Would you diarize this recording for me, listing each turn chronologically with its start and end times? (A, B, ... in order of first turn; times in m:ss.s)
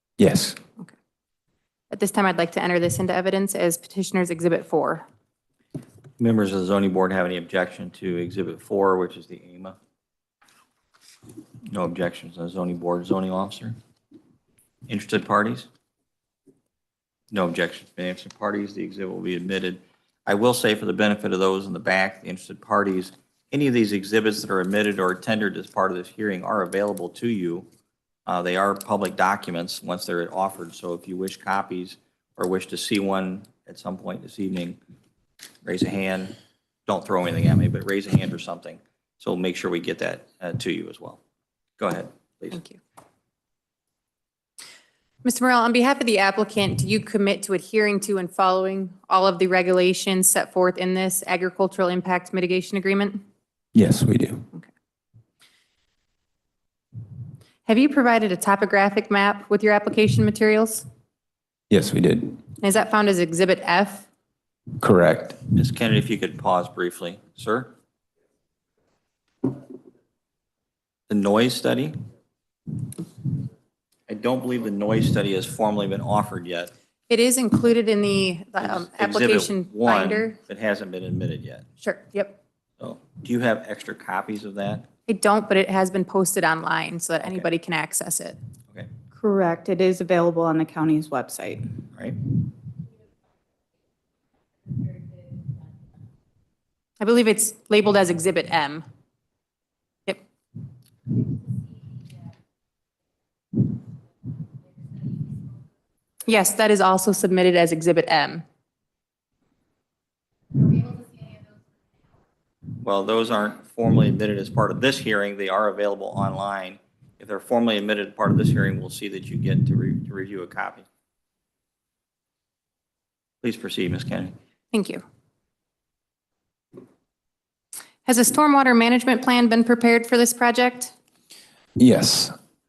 0:00.2-0:00.6 A
0:01.9-0:05.0 B
0:06.2-0:09.8 C
0:11.7-0:13.8 C
0:14.9-0:15.7 C
0:17.3-0:27.7 C
0:28.3-0:34.8 C
0:35.6-0:41.2 C
0:41.8-0:42.6 C
0:42.5-0:42.8 B
0:45.2-0:53.2 B
0:53.8-0:54.5 A
0:57.7-1:00.9 B
1:01.7-1:02.4 A
1:02.6-1:04.1 B
1:04.8-1:05.4 A
1:05.5-1:07.7 C
1:11.1-1:12.0 C
1:14.1-1:16.7 C
1:17.1-1:20.4 B
1:18.6-1:21.7 C
1:21.8-1:22.4 B
1:22.8-1:24.9 C
1:25.1-1:28.4 B
1:29.2-1:31.6 D
1:29.2-1:30.1 B
1:37.0-1:38.8 B
1:46.2-1:48.4 B
1:52.8-2:00.9 C
2:03.4-2:04.4 C
2:04.7-2:05.0 B
2:08.0-2:10.9 B
2:11.8-2:12.3 A